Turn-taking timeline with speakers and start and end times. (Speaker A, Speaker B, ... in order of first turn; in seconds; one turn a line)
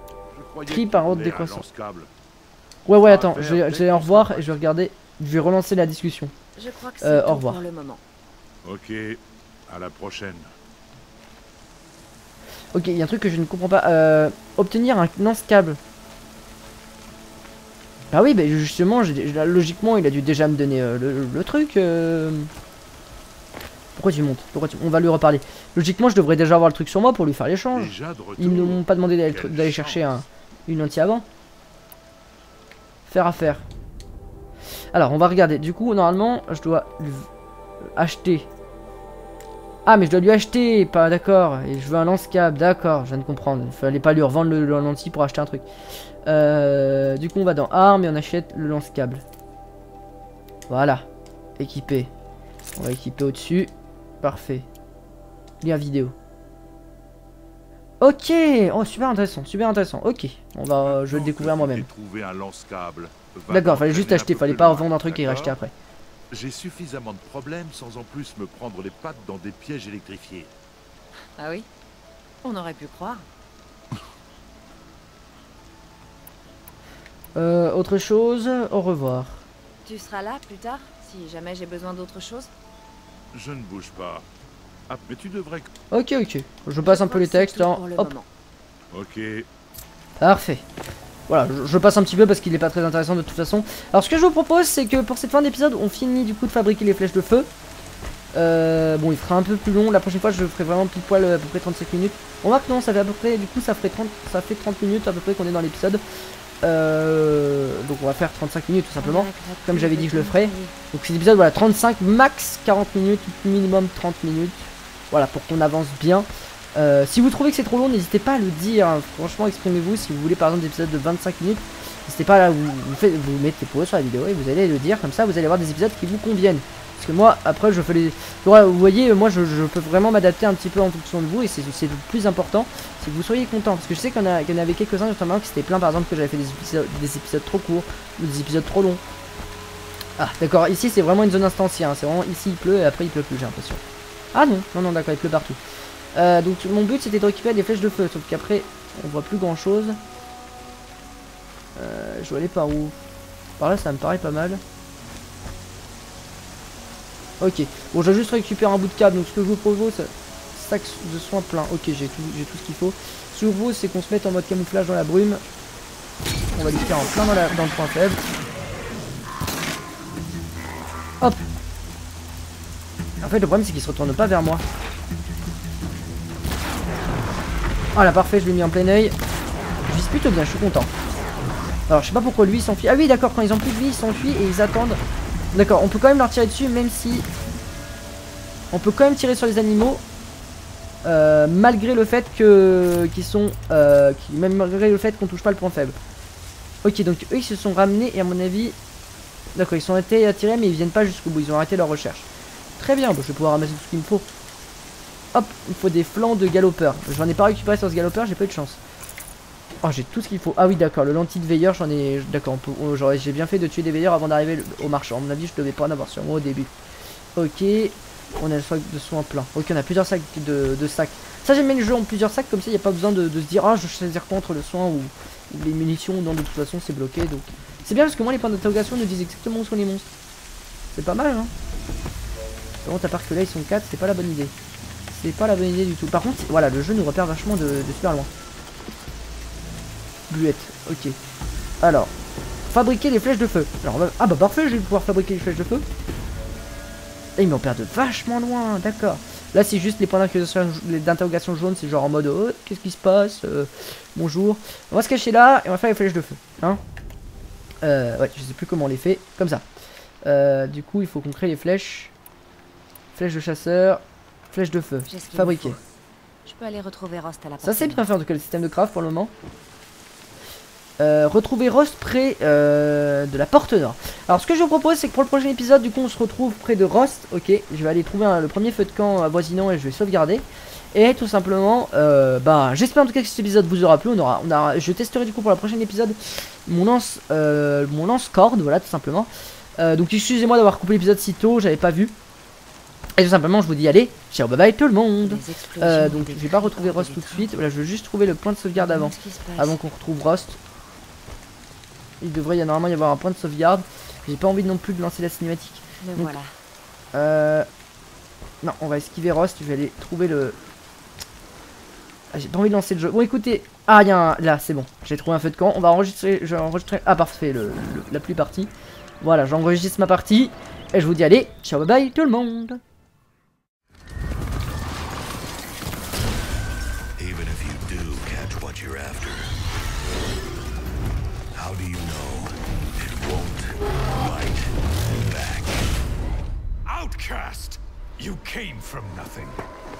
Speaker A: 0.3-2.1
Speaker B: 0.7-1.6
Speaker B: 2.9-6.3
Speaker A: 3.0-4.6
Speaker C: 6.6-8.0
Speaker B: 7.0-7.6
Speaker A: 8.6-10.5
Speaker B: 12.7-15.8
Speaker B: 18.1-22.5
Speaker B: 24.0-31.3
Speaker A: 27.7-30.2
Speaker B: 33.1-33.6
Speaker B: 34.9-37.3
Speaker B: 38.0-38.5
Speaker B: 39.9-45.6
Speaker B: 46.3-49.2
Speaker B: 50.7-51.1
Speaker B: 51.6-52.1
Speaker B: 52.8-53.7
Speaker B: 54.2-54.7
Speaker B: 55.6-56.1
Speaker B: 58.0-61.9
Speaker A: 60.8-65.6
Speaker B: 63.5-65.7
Speaker A: 66.3-70.5
Speaker C: 71.4-71.7
Speaker C: 72.4-73.2
Speaker B: 77.4-79.5
Speaker C: 79.8-82.5
Speaker A: 83.3-84.3
Speaker A: 84.9-85.7
Speaker B: 85.9-88.1
Speaker C: 86.8-88.3
Speaker A: 88.9-89.5
Speaker B: 90.2-90.6
Speaker B: 91.3-97.5
Speaker B: 98.3-106.0
Speaker B: 106.6-139.0
Speaker C: 109.0-110.8
Speaker B: 140.2-143.8
Speaker B: 144.3-145.6
Speaker B: 146.1-150.0
Speaker B: 151.8-152.9
Speaker B: 153.6-154.6
Speaker B: 157.4-165.4
Speaker C: 166.5-167.6
Speaker B: 166.6-168.2
Speaker B: 173.2-174.6
Speaker B: 177.9-179.2
Speaker B: 179.8-180.9
Speaker B: 181.9-185.0
Speaker B: 185.5-187.3
Speaker B: 188.7-190.0
Speaker B: 191.0-196.0
Speaker B: 196.8-198.8
Speaker B: 199.6-204.3
Speaker B: 205.3-208.8
Speaker B: 209.8-216.7
Speaker B: 217.4-230.1
Speaker B: 230.9-231.5
Speaker B: 232.8-234.5
Speaker B: 235.1-238.3
Speaker B: 240.3-241.2
Speaker B: 241.8-242.1
Speaker B: 242.7-245.8
Speaker B: 247.4-256.8
Speaker B: 257.8-259.6
Speaker B: 260.2-262.1
Speaker B: 263.1-265.8
Speaker C: 265.1-265.8
Speaker C: 266.4-268.1
Speaker B: 267.6-269.3
Speaker B: 271.0-292.1
Speaker B: 293.2-300.6
Speaker C: 295.2-297.5
Speaker C: 298.8-299.8
Speaker B: 302.2-306.3
Speaker C: 306.0-306.5
Speaker B: 307.1-307.7
Speaker B: 308.6-310.6
Speaker B: 312.3-322.8
Speaker D: 327.2-329.5
Speaker D: 331.6-335.8
Speaker D: 336.9-339.6